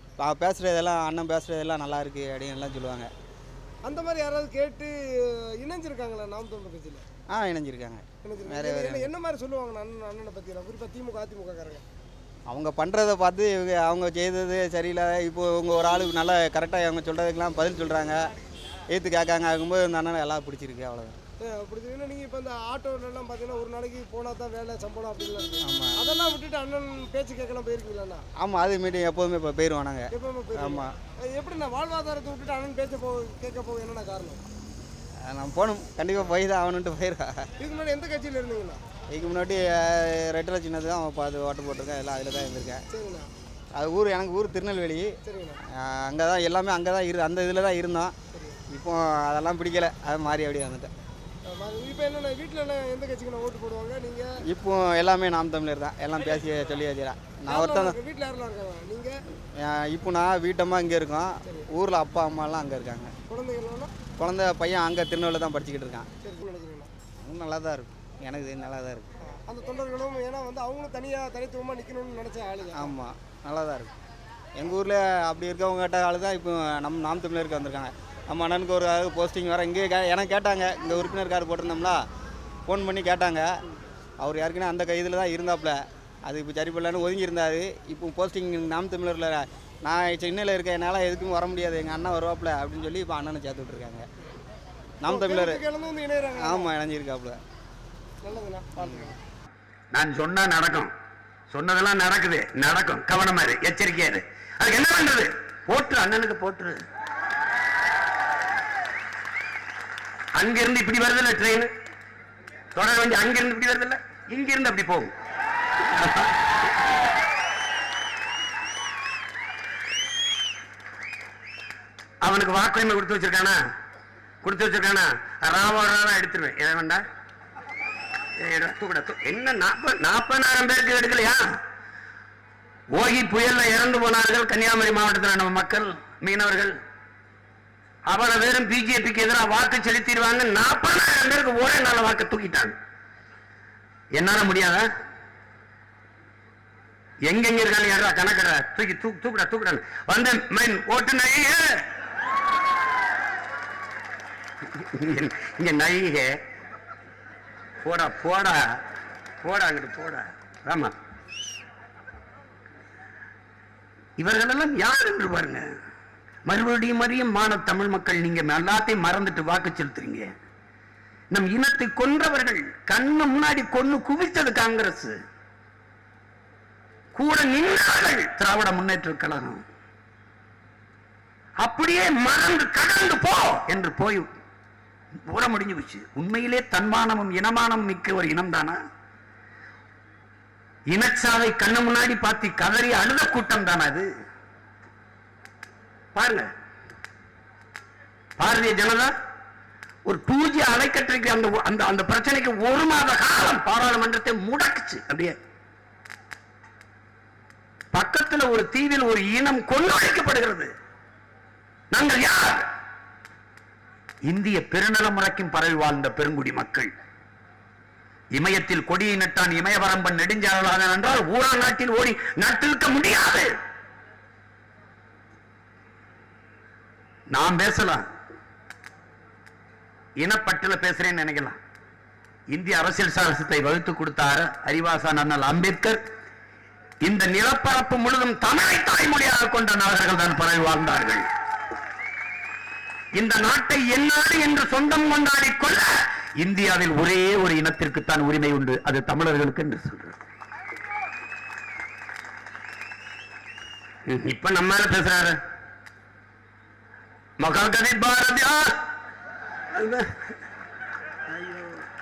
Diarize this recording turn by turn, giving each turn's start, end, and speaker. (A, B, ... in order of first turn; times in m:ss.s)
0:00.2-0:03.1 A
0:03.8-0:07.0 B
0:07.3-0:09.1 A
0:08.2-0:11.8 B
0:12.5-0:18.2 A
0:18.9-0:21.2 A
0:21.4-0:28.3 B
0:25.6-0:26.0 A
0:28.4-0:30.9 A
0:30.1-0:34.4 B
0:35.2-0:37.5 A
0:37.6-0:38.8 B
0:39.1-0:42.8 A
0:42.9-0:43.3 B
0:43.8-0:45.2 A
0:45.2-0:45.6 B
0:45.7-0:48.1 A
0:48.3-0:48.6 B
0:48.7-0:50.9 A
0:51.4-0:54.4 B
0:54.5-0:58.0 A
0:57.5-0:59.2 B
0:59.6-1:03.1 A
1:03.3-1:03.9 B
1:04.2-1:06.1 A
1:06.2-1:06.9 B
1:07.2-1:09.1 A
1:09.2-1:12.9 B
1:12.8-1:13.9 A
1:14.6-1:22.0 A
1:22.7-1:23.6 A
1:24.2-1:34.0 A
1:35.0-1:35.6 A
1:35.1-1:36.7 B
1:36.4-1:37.4 A
1:38.2-1:39.2 B
1:39.9-1:40.9 C
1:41.5-1:46.8 C
1:50.4-1:51.7 C
1:52.8-1:55.1 C
1:55.8-1:56.5 C
2:02.2-2:03.6 C
2:04.4-2:07.0 C
2:08.4-2:11.6 C
2:12.9-2:16.8 C
2:18.1-2:22.8 C
2:24.1-2:24.9 C
2:27.3-2:31.8 C
2:34.7-2:36.4 C
2:37.8-2:38.8 C
2:39.4-2:40.9 C
2:44.2-2:45.7 C
2:46.5-2:50.3 C
2:51.3-2:55.2 C
2:57.1-2:59.6 C
3:01.6-3:04.3 C
3:05.3-3:08.8 C
3:10.9-3:14.1 C
3:16.2-3:16.5 C
3:18.4-3:19.1 C
3:20.1-3:25.4 C
3:27.9-3:30.7 C
3:31.9-3:32.7 C
3:34.3-3:36.9 C
3:38.4-3:43.5 C
3:47.3-3:48.0 C
3:50.2-3:51.6 C
3:52.5-3:56.0 C
3:57.0-4:01.3 C
4:03.2-4:10.2 C
4:14.1-4:15.4 C
4:17.4-4:18.7 C
4:19.7-4:20.1 C
4:21.3-4:21.8 C